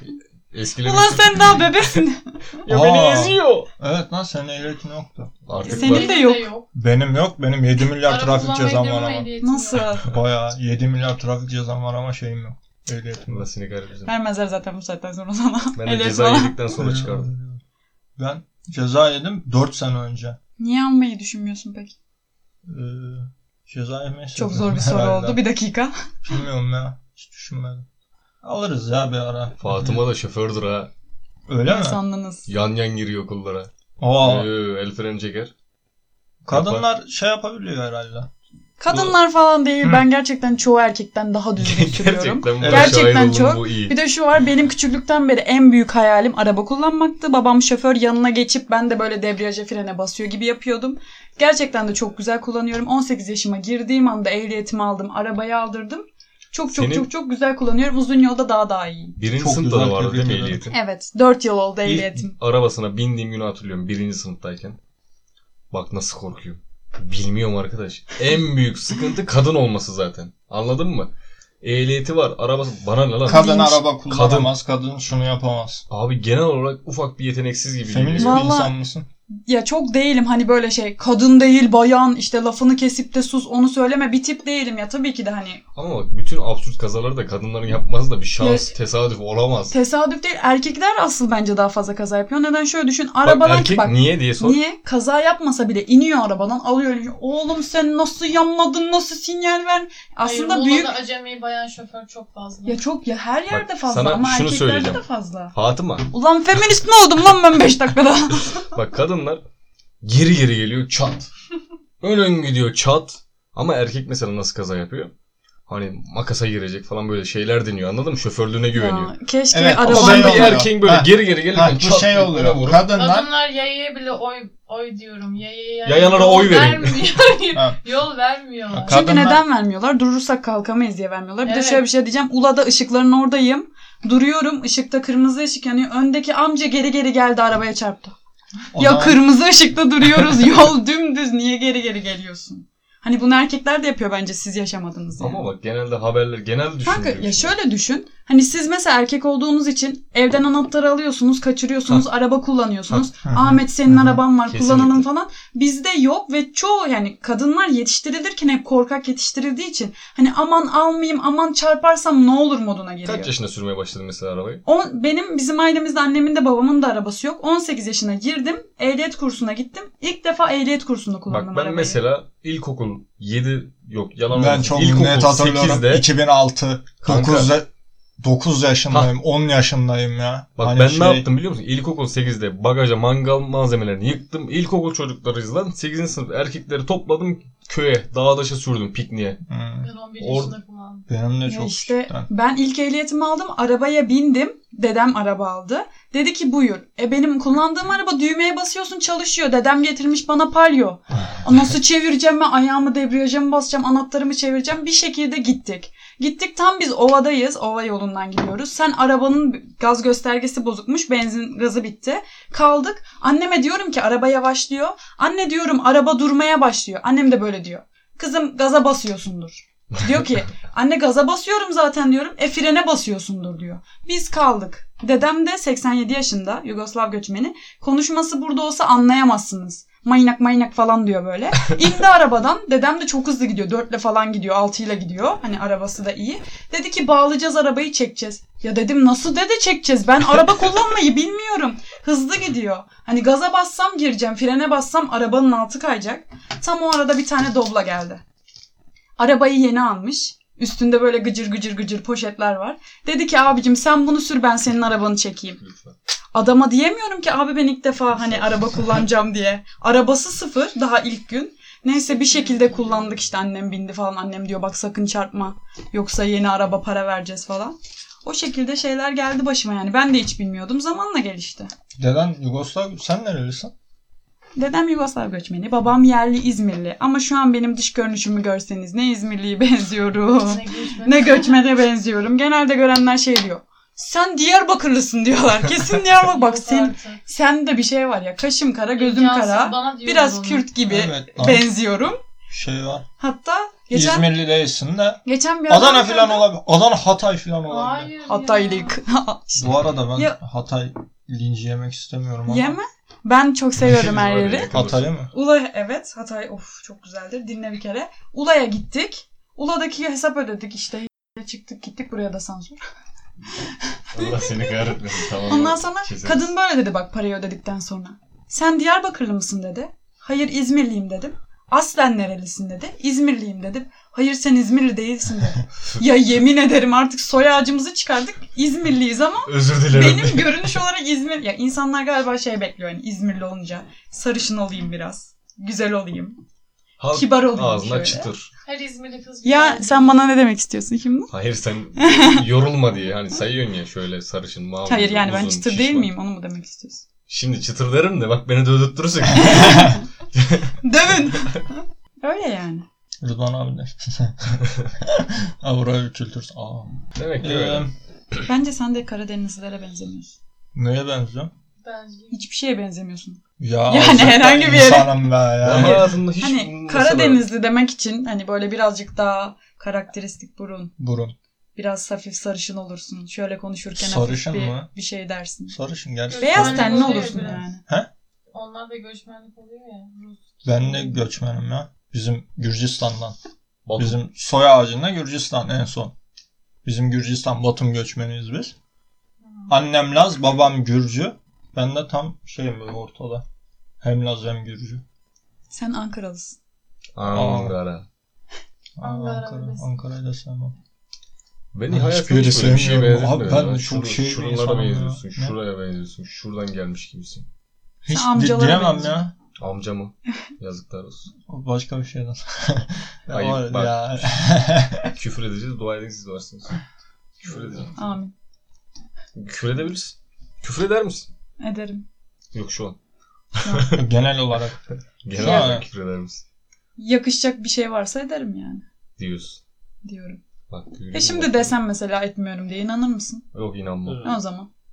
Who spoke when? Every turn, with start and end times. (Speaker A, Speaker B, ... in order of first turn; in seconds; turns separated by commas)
Speaker A: 0.5-1.9, Speaker B: 0.8-2.4, Speaker A: 2.6-3.7, Speaker C: 2.7-5.3, Speaker A: 5.5-6.2, Speaker D: 5.6-6.7, Speaker B: 5.7-6.5, Speaker C: 6.7-9.3, Speaker D: 8.0-9.8, Speaker B: 9.4-10.1, Speaker C: 10.0-13.5, Speaker A: 13.3-14.1, Speaker B: 14.0-16.6, Speaker A: 15.8-17.3, Speaker C: 16.7-17.6, Speaker C: 18.2-20.4, Speaker B: 20.6-21.9, Speaker C: 22.6-25.4, Speaker B: 24.3-25.9, Speaker C: 26.2-27.9, Speaker C: 28.4-30.0, Speaker A: 29.6-30.9, Speaker C: 31.5-32.0, Speaker B: 31.6-32.5, Speaker A: 32.5-35.5, Speaker C: 34.0-34.5, Speaker C: 36.4-38.3, Speaker A: 36.5-36.9, Speaker B: 38.8-59.1, Speaker A: 41.6-44.0, Speaker C: 42.6-43.1, Speaker A: 56.7-57.1, Speaker A: 59.2-60.8, Speaker C: 59.3-60.6, Speaker B: 60.7-62.3, Speaker A: 61.9-64.8, Speaker A: 65.7-71.1, Speaker A: 71.6-74.5, Speaker C: 73.2-75.8, Speaker B: 73.3-73.8, Speaker A: 75.9-78.5, Speaker C: 77.9-79.1, Speaker B: 78.2-78.7, Speaker B: 79.5-85.6, Speaker A: 85.7-89.7, Speaker B: 88.4-88.7, Speaker B: 89.7-101.0, Speaker A: 93.2-94.6, Speaker D: 100.2-102.8, Speaker B: 102.7-105.5, Speaker A: 103.5-105.0, Speaker A: 105.5-106.1, Speaker B: 106.1-108.7, Speaker A: 108.7-109.4, Speaker A: 110.0-111.3, Speaker A: 112.0-115.1, Speaker A: 115.7-119.1, Speaker B: 118.7-120.7, Speaker C: 119.5-123.3, Speaker A: 119.8-122.9, Speaker D: 122.9-129.0, Speaker A: 125.8-127.1, Speaker C: 128.7-129.4, Speaker B: 128.8-138.1, Speaker D: 131.4-131.8, Speaker C: 138.7-139.2, Speaker B: 138.8-145.5, Speaker A: 145.2-147.5, Speaker B: 146.8-163.3, Speaker C: 152.9-154.2, Speaker A: 154.5-155.1, Speaker A: 163.0-164.6, Speaker B: 164.6-172.0, Speaker A: 171.3-176.1, Speaker C: 174.3-177.7, Speaker A: 177.0-177.5, Speaker C: 178.2-181.2, Speaker A: 180.6-189.4, Speaker C: 189.5-189.9, Speaker D: 189.8-191.1, Speaker A: 190.2-190.5, Speaker C: 191.1-192.3, Speaker B: 191.4-248.2, Speaker B: 249.2-255.6, Speaker A: 255.6-255.9, Speaker B: 256.3-271.7, Speaker D: 262.1-263.1, Speaker C: 272.0-273.7, Speaker B: 274.6-292.2, Speaker D: 280.4-281.6, Speaker D: 286.2-287.2, Speaker D: 288.9-290.7, Speaker C: 290.9-291.7, Speaker C: 292.5-293.0, Speaker B: 293.2-294.3, Speaker C: 293.9-298.1, Speaker B: 295.2-296.5, Speaker D: 297.6-299.0, Speaker B: 298.3-300.4, Speaker C: 299.6-302.8, Speaker B: 302.5-304.7, Speaker A: 303.8-305.1, Speaker C: 304.7-305.3, Speaker B: 305.3-312.8, Speaker A: 314.1-316.5, Speaker B: 314.1-314.7, Speaker B: 315.4-336.4, Speaker A: 329.4-330.7, Speaker A: 337.0-338.5, Speaker B: 337.1-338.3, Speaker D: 338.6-340.2, Speaker B: 339.4-341.3, Speaker A: 341.3-346.1, Speaker B: 342.0-342.4, Speaker B: 344.9-347.0, Speaker A: 347.3-350.8, Speaker B: 349.3-350.0, Speaker B: 350.8-352.8, Speaker C: 353.2-357.9, Speaker A: 357.1-358.4, Speaker B: 358.4-360.4, Speaker C: 360.7-361.5, Speaker D: 361.8-362.4, Speaker B: 362.3-370.9, Speaker C: 363.6-366.1, Speaker A: 365.6-367.4, Speaker C: 371.0-371.3, Speaker B: 371.8-375.8, Speaker C: 373.9-374.9, Speaker C: 375.7-378.1, Speaker D: 376.3-377.6, Speaker B: 376.4-377.8, Speaker D: 378.5-381.1, Speaker C: 380.6-383.4, Speaker A: 383.9-384.2, Speaker C: 384.0-386.1, Speaker C: 386.8-388.7, Speaker D: 389.4-389.8, Speaker C: 389.7-393.4, Speaker C: 394.0-395.0, Speaker B: 395.7-396.6, Speaker A: 397.1-398.1, Speaker C: 397.3-397.8, Speaker C: 399.0-400.7, Speaker D: 399.0-399.9, Speaker A: 401.7-407.4, Speaker C: 401.9-405.6, Speaker C: 408.0-409.3, Speaker B: 408.1-409.2, Speaker A: 409.6-411.3, Speaker C: 411.5-415.1, Speaker A: 413.3-414.2, Speaker A: 415.1-416.8, Speaker A: 417.4-417.9, Speaker C: 417.4-417.9, Speaker B: 417.9-418.3, Speaker A: 419.3-421.3, Speaker B: 421.6-422.0, Speaker A: 422.5-423.0, Speaker B: 423.6-423.9, Speaker A: 423.6-424.0, Speaker C: 423.9-424.8, Speaker A: 425.2-426.4, Speaker C: 425.4-425.9, Speaker B: 425.4-425.7, Speaker B: 427.0-428.8, Speaker A: 429.2-429.6, Speaker B: 430.0-430.4, Speaker A: 430.7-431.7, Speaker B: 431.1-433.4, Speaker A: 433.5-434.2, Speaker C: 434.0-434.4, Speaker B: 434.2-434.7